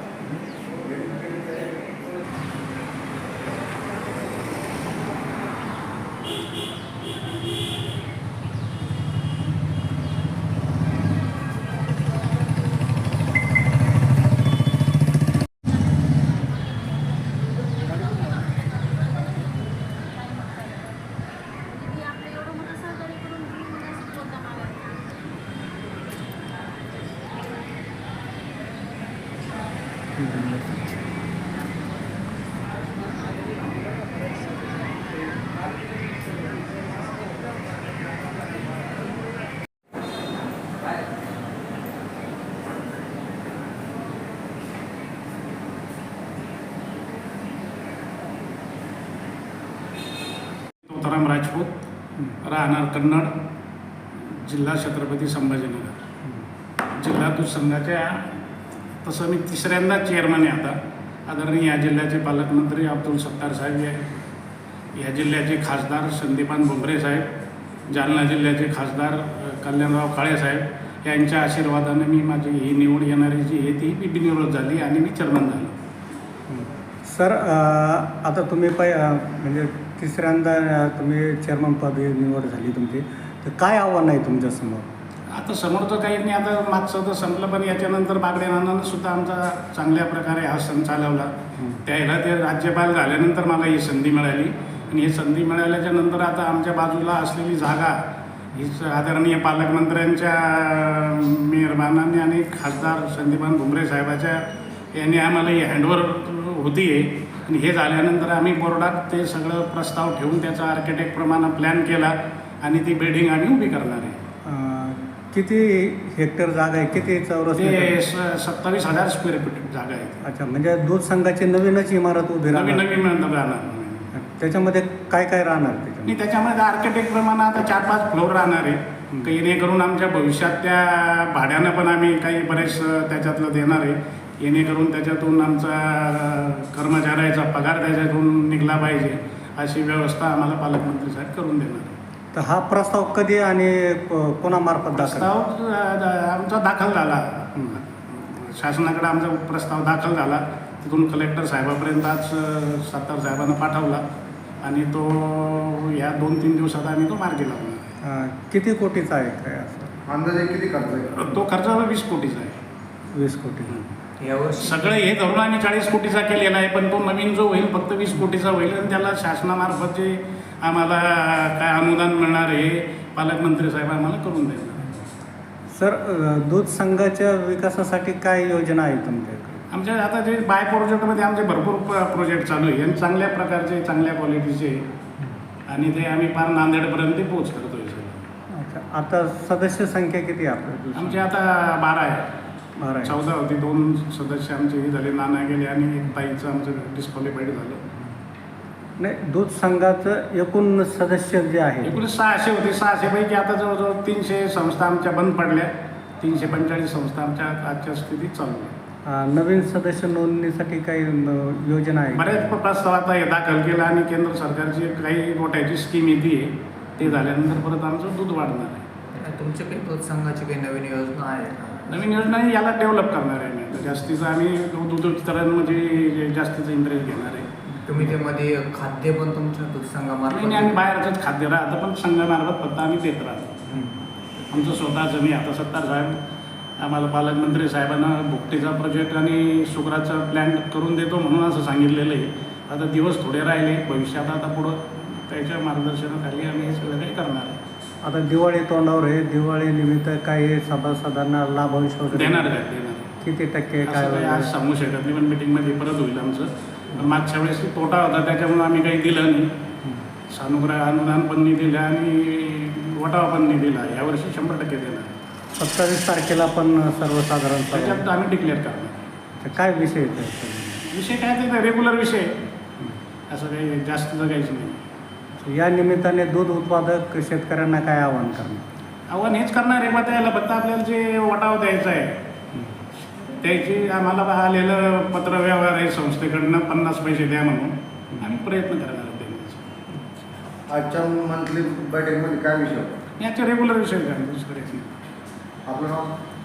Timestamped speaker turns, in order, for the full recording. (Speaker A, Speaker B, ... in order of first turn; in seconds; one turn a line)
Speaker A: 1.1-1.3
Speaker B: 22.0-24.9
Speaker C: 30.2-30.8
Speaker D: 50.8-51.9
Speaker D: 52.4-53.3
Speaker D: 54.1-56.0
Speaker D: 56.8-58.4
Speaker D: 59.0-64.1
Speaker D: 65.0-67.3
Speaker D: 67.9-75.8
Speaker C: 76.5-84.9
Speaker D: 85.3-98.0
Speaker D: 98.5-114.2
Speaker C: 114.5-118.0
Speaker D: 117.5-120.2
Speaker C: 120.2-122.9
Speaker D: 122.5-124.1
Speaker C: 124.1-126.2
Speaker D: 126.0-142.0
Speaker C: 142.3-145.3
Speaker D: 144.9-154.1
Speaker D: 154.6-157.9
Speaker C: 158.0-160.0
Speaker A: 160.1-161.2
Speaker D: 161.1-162.6
Speaker C: 163.1-163.8
Speaker E: 164.2-164.9
Speaker D: 164.6-175.1
Speaker C: 175.7-179.6
Speaker D: 179.7-184.9
Speaker D: 185.7-188.2
Speaker C: 188.6-191.3
Speaker D: 190.9-192.3
Speaker C: 192.8-193.2
Speaker D: 193.0-197.8
Speaker C: 199.0-202.0
Speaker D: 201.8-208.7
Speaker C: 209.1-212.6
Speaker D: 212.1-218.9
Speaker E: 219.1-221.8
Speaker D: 221.8-227.5
Speaker E: 227.8-230.8
Speaker D: 230.3-233.8
Speaker D: 234.5-236.2
Speaker D: 236.8-247.6
Speaker C: 248.0-252.5
Speaker D: 252.1-253.1
Speaker C: 253.2-254.5
Speaker D: 253.9-259.5
Speaker D: 260.3-265.1
Speaker C: 265.6-268.0
Speaker D: 267.7-269.0
Speaker C: 269.4-270.8
Speaker D: 270.9-272.4
Speaker D: 273.3-274.8
Speaker C: 275.4-278.6
Speaker D: 279.1-282.2
Speaker D: 283.4-289.7
Speaker A: 290.7-293.0
Speaker D: 293.2-295.1
Speaker A: 295.7-296.1